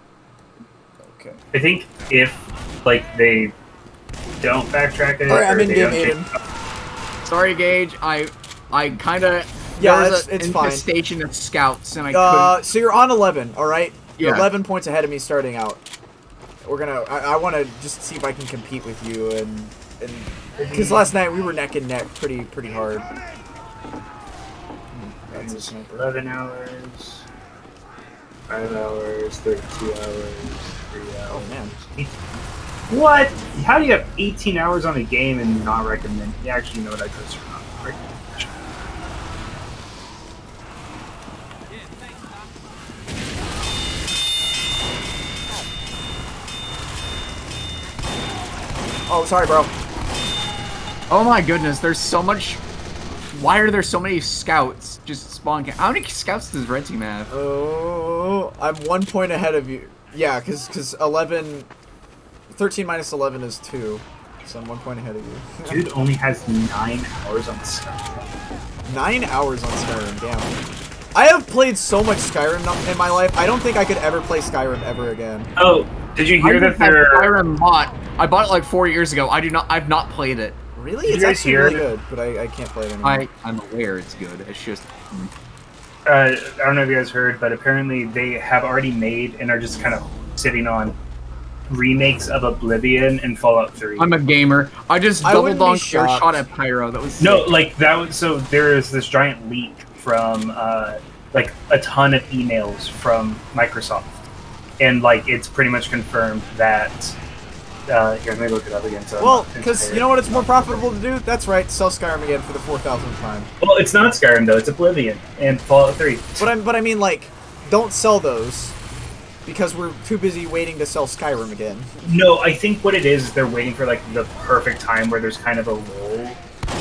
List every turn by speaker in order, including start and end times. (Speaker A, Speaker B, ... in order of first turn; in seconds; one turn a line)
Speaker A: 1.0-1.4
Speaker B: 1.5-3.5
Speaker B: 4.4-6.3
Speaker A: 5.3-6.3
Speaker C: 7.2-12.6
Speaker A: 9.8-10.9
Speaker A: 12.1-15.8
Speaker C: 14.2-14.5
Speaker A: 16.6-23.1
Speaker B: 20.6-21.1
Speaker A: 24.9-26.0
Speaker B: 25.3-27.3
Speaker B: 28.5-32.2
Speaker A: 31.3-31.7
Speaker B: 32.9-38.5
Speaker A: 49.1-49.7
Speaker C: 51.1-52.6
Speaker C: 53.3-57.3
Speaker A: 57.3-61.7
Speaker A: 62.5-65.8
Speaker B: 65.7-68.3
Speaker A: 68.8-70.5
Speaker A: 71.1-75.5
Speaker B: 75.6-77.3
Speaker C: 76.4-80.6
Speaker A: 80.8-83.2
Speaker B: 81.0-81.8
Speaker C: 83.0-85.3
Speaker B: 86.0-91.0
Speaker B: 91.7-94.2
Speaker C: 94.0-97.5
Speaker A: 95.2-96.4
Speaker B: 97.2-104.1
Speaker B: 104.8-107.2
Speaker B: 107.9-110.9
Speaker A: 109.2-113.5
Speaker B: 113.6-116.5
Speaker A: 116.4-118.8
Speaker A: 119.5-122.1
Speaker B: 122.0-126.4